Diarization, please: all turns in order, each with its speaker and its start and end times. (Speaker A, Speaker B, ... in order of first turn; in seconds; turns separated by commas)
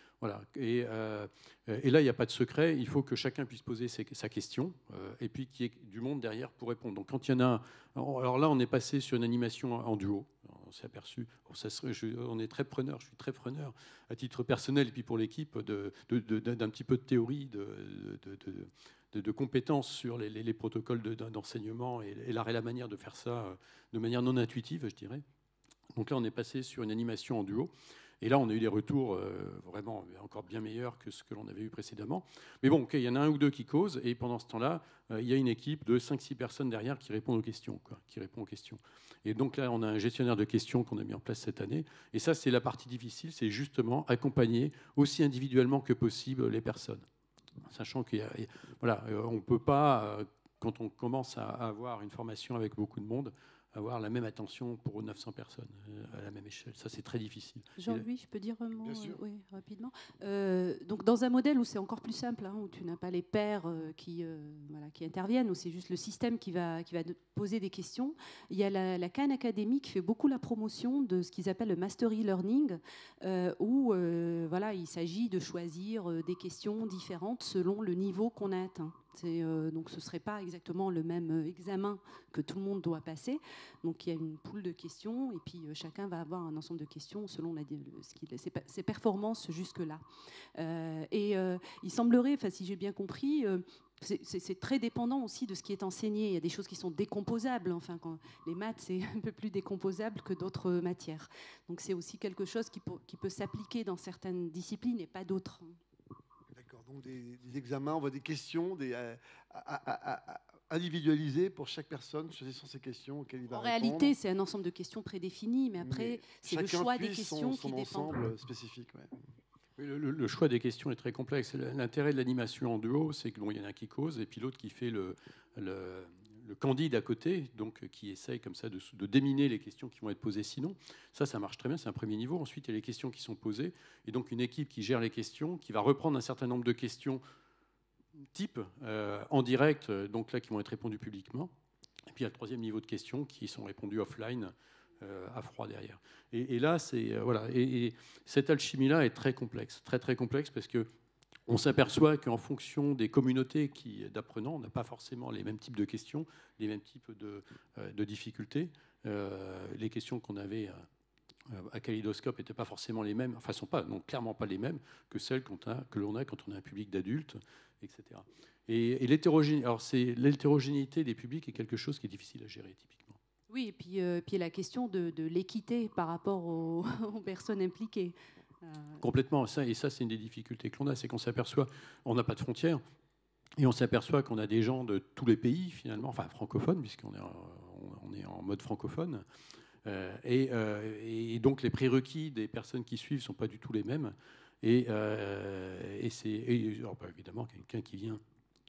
Speaker A: 0.2-25.2, Speaker A: 25.9-47.0, Speaker A: 47.6-58.0, Speaker B: 57.8-90.0, Speaker C: 58.8-59.2, Speaker B: 90.6-105.8, Speaker C: 106.5-114.2, Speaker B: 113.5-118.2, Speaker C: 115.8-119.1, Speaker A: 119.8-137.2, Speaker A: 138.3-141.5, Speaker A: 142.1-150.9, Speaker A: 151.5-160.9, Speaker A: 161.5-173.2, Speaker B: 173.5-179.0, Speaker A: 179.0-182.8, Speaker A: 183.6-189.2, Speaker A: 189.8-198.2